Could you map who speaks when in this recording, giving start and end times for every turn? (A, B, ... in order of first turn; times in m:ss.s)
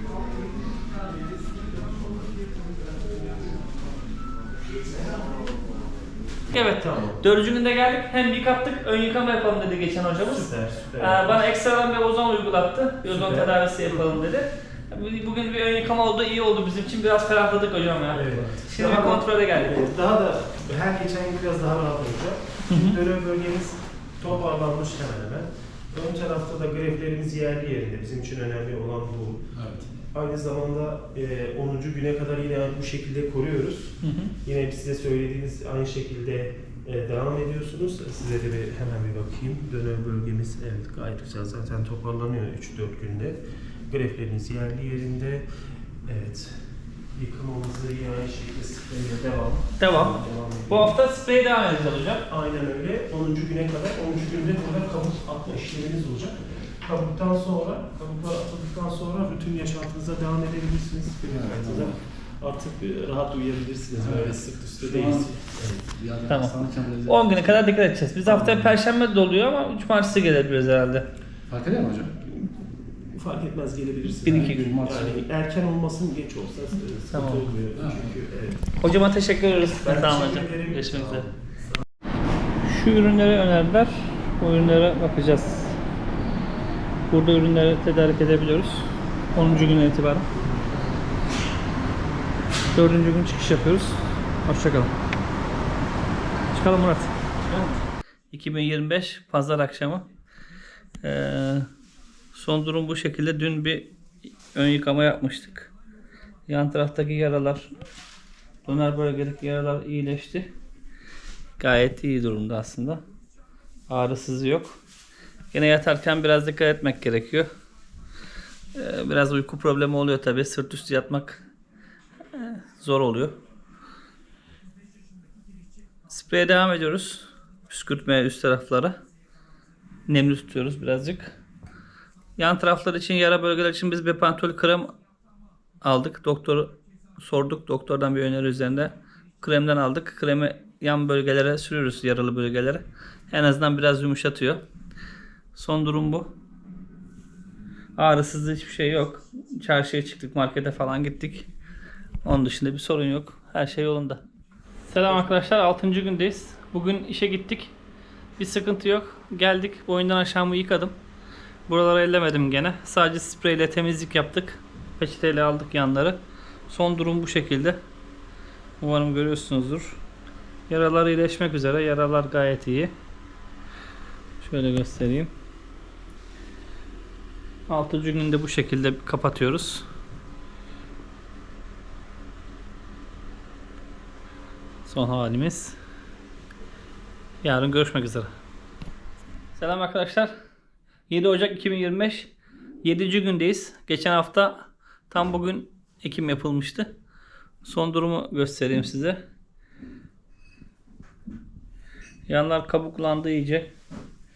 0:06.5-0:19.9 A
0:06.8-0:07.2 B
0:10.3-0:11.4 B
0:13.0-0:14.1 B
0:18.1-0:29.4 B
0:22.7-0:23.0 A
0:29.6-0:29.9 C
0:30.1-0:45.5 B
0:34.0-0:34.3 A
0:46.0-0:46.6 B
0:47.1-0:51.0 B
0:49.8-0:52.2 A
0:52.3-1:05.9 B
1:01.3-1:02.0 C
1:04.0-1:07.5 C
1:06.3-1:11.1 A
1:08.2-1:08.8 C
1:11.5-1:12.2 C
1:13.1-1:18.6 B
1:14.2-1:14.6 A
1:14.3-1:15.2 C
1:17.1-1:17.5 A
1:17.8-1:18.1 C
1:18.8-1:21.3 A
1:19.8-1:21.3 B
1:22.6-1:25.8 A
1:27.1-1:30.3 A
1:32.7-1:34.9 A
1:36.5-1:37.1 A
1:38.3-1:40.1 A
1:41.0-1:41.7 A
1:42.3-1:43.9 A
1:44.5-1:45.7 A
1:46.5-1:47.7 A
1:48.7-1:50.5 A
1:51.6-1:53.0 A
1:53.9-1:54.8 A
1:55.5-1:57.5 A
1:58.8-2:01.4 A
2:02.3-2:03.4 A
2:06.1-2:09.0 A
2:10.1-2:11.4 A
2:12.4-2:14.9 A
2:15.8-2:24.6 A
2:25.6-2:26.3 A
2:28.0-2:31.5 A
2:32.2-2:34.2 A
2:34.9-2:37.7 A
2:38.4-2:41.0 A
2:41.7-2:47.8 A
2:48.8-2:50.0 A
2:50.7-2:52.9 A
2:54.4-2:55.3 A
2:57.7-2:59.9 A
3:04.9-3:05.8 A
3:07.4-3:08.3 A
3:09.6-3:10.3 A
3:11.1-3:12.3 A
3:12.8-3:16.9 A
3:17.6-3:19.2 A
3:22.3-3:23.7 A